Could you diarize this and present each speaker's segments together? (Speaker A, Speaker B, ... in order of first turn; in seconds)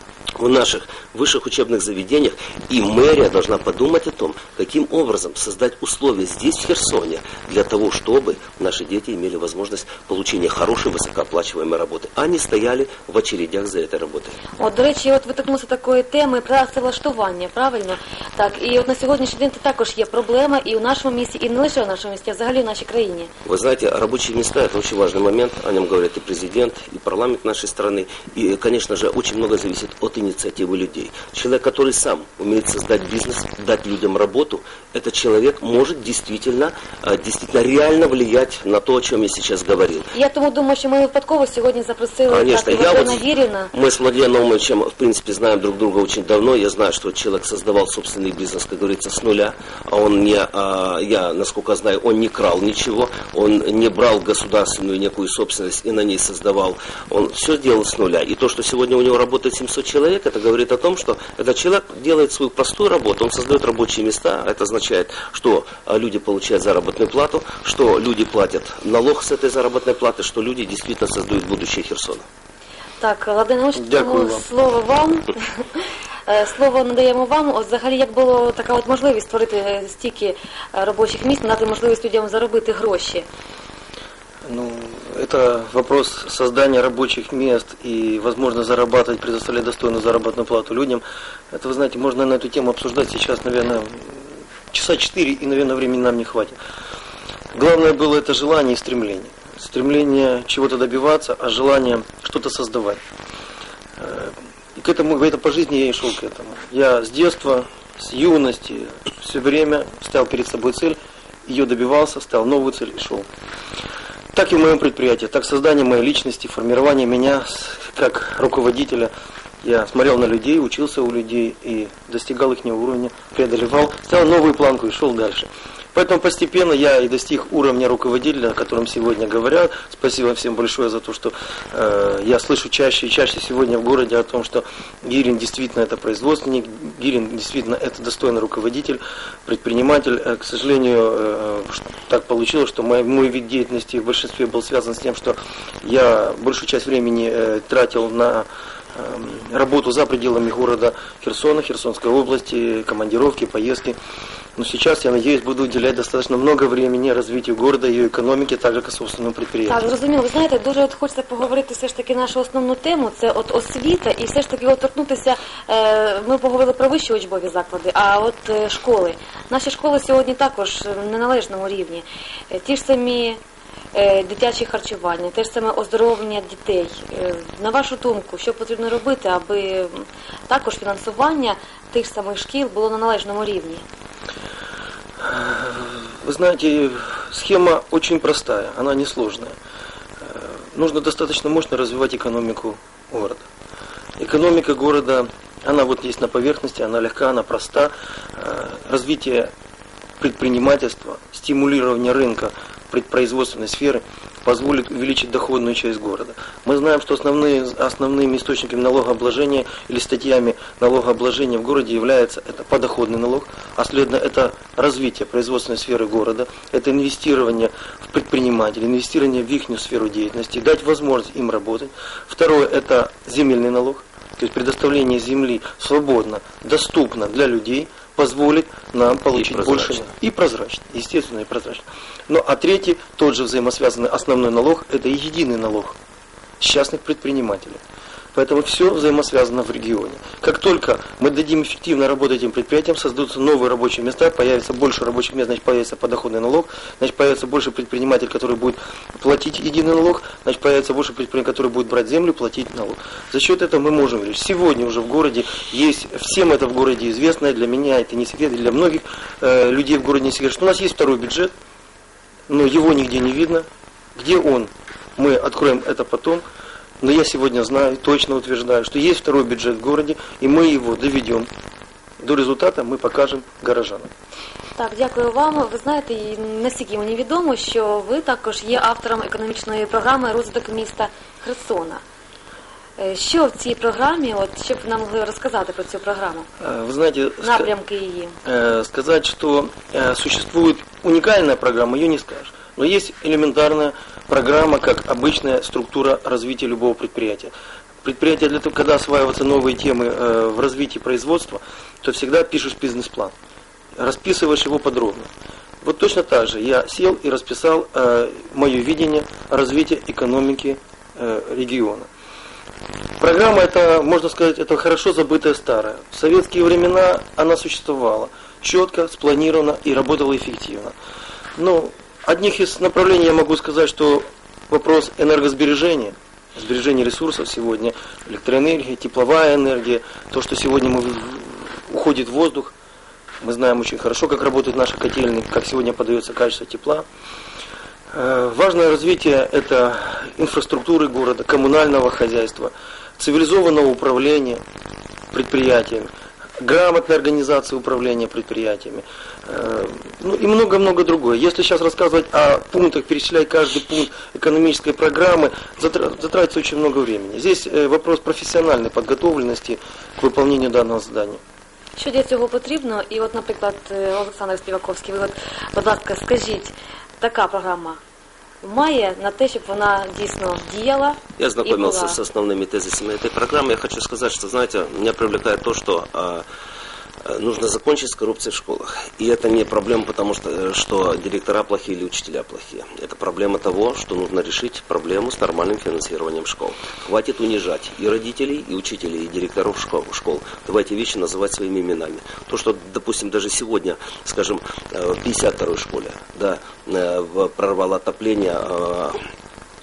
Speaker A: 0.4-14.4, 23.4-40.1, 42.3-72.3, 229.3-230.1, 371.4-376.4, 377.2-399.2
Speaker B: 14.6-23.3, 40.1-43.7, 73.0-83.3, 159.7-173.4, 173.9-183.8, 274.8-282.0, 283.0-286.5, 287.4-288.4, 362.0-368.0, 368.6-372.2
Speaker C: 73.8-74.5, 84.5-96.6, 97.5-103.0, 104.0-113.3, 114.3-119.1, 119.6-154.0, 154.6-159.9, 185.2-189.6, 190.2-193.5, 194.2-199.5, 200.2-236.0, 236.6-237.8, 238.3-261.5, 262.5-266.4, 267.0-271.5, 272.2-274.1, 286.6-287.7, 288.4-297.5, 298.0-303.3, 304.0-305.3, 305.8-312.1, 313.2-320.9, 321.6-332.7, 333.4-337.1, 338.1-344.6, 345.3-361.4